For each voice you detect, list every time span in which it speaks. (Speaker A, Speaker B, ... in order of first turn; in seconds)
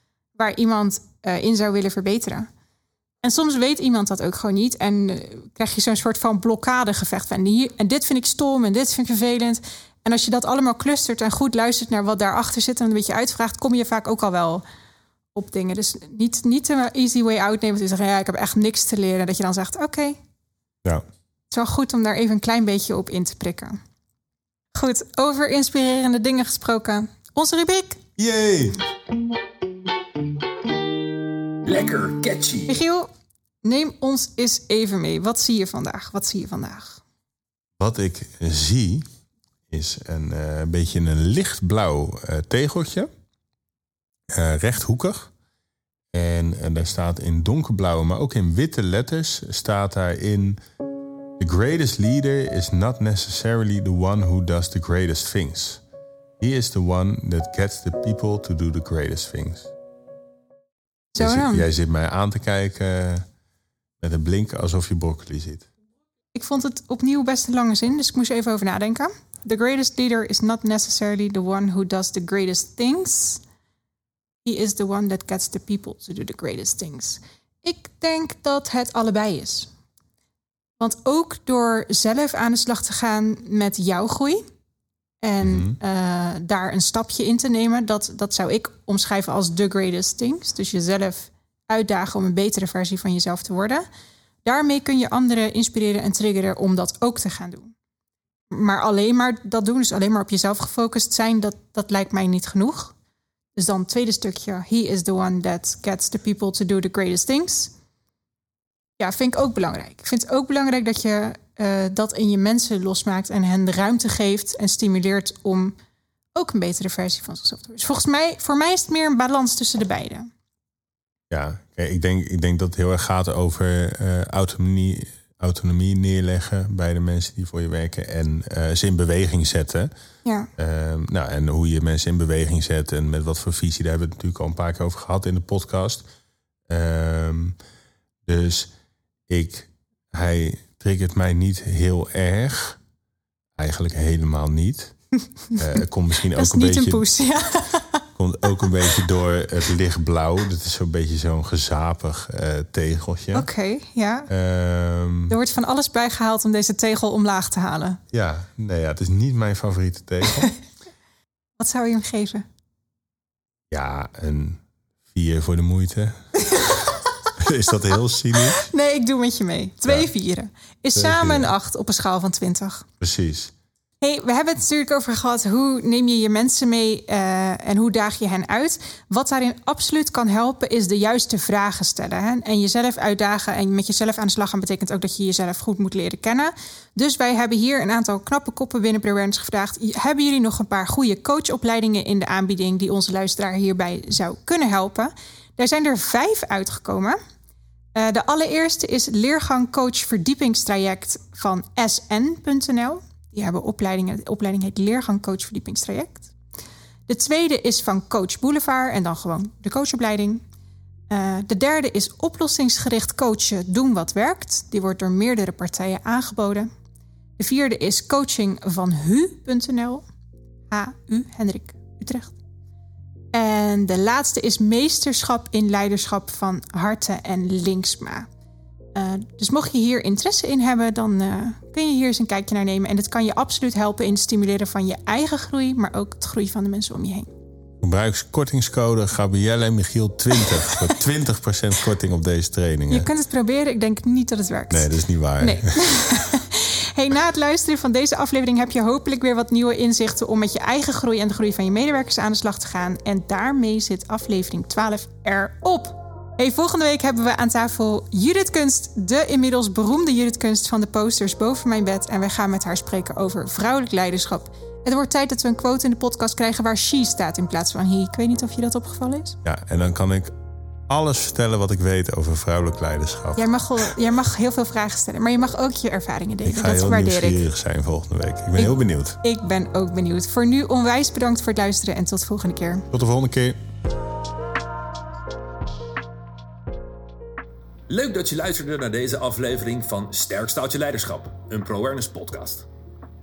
Speaker A: 0.4-2.5, 3.2-14.6, 15.3-20.2, 21.5-23.8, 24.7-28.0, 32.7-33.1, 33.6-37.0, 61.1-61.6, 66.3-73.4, 74.4-79.7, 80.8-84.4, 85.2-93.8, 94.4-97.7, 98.5-102.9, 103.5-107.7, 109.0-115.7, 116.3-120.3, 146.3-148.0, 153.3-154.3, 155.3-158.0, 161.6-162.4, 166.4-166.8, 168.3-172.8, 174.0-197.2, 197.9-206.3, 207.1-210.4, 211.1-216.7, 217.4-220.0, 220.7-222.4, 223.3-228.3, 228.9-237.3, 242.9-269.4, 273.4-277.4, 278.6-282.9
Speaker B: 28.2-28.8, 37.8-39.0, 39.7-43.1, 44.3-45.3, 46.1-50.6, 51.4-55.8, 56.4-59.7, 61.2-63.2, 64.0-65.7, 85.4-85.8, 121.3-129.9, 130.6-136.0, 136.7-137.6, 138.2-138.7, 139.3-142.8, 143.6-144.9, 145.5-147.0, 148.2-153.5, 154.3-155.3, 158.1-160.5, 163.7-166.2, 167.4-168.6, 170.9-171.5, 173.0-173.5, 237.8-243.1, 244.7-245.7, 269.4-270.3, 270.9-273.4, 276.4-279.2, 282.9-283.6
Speaker C: 31.6-32.8, 287.9-292.7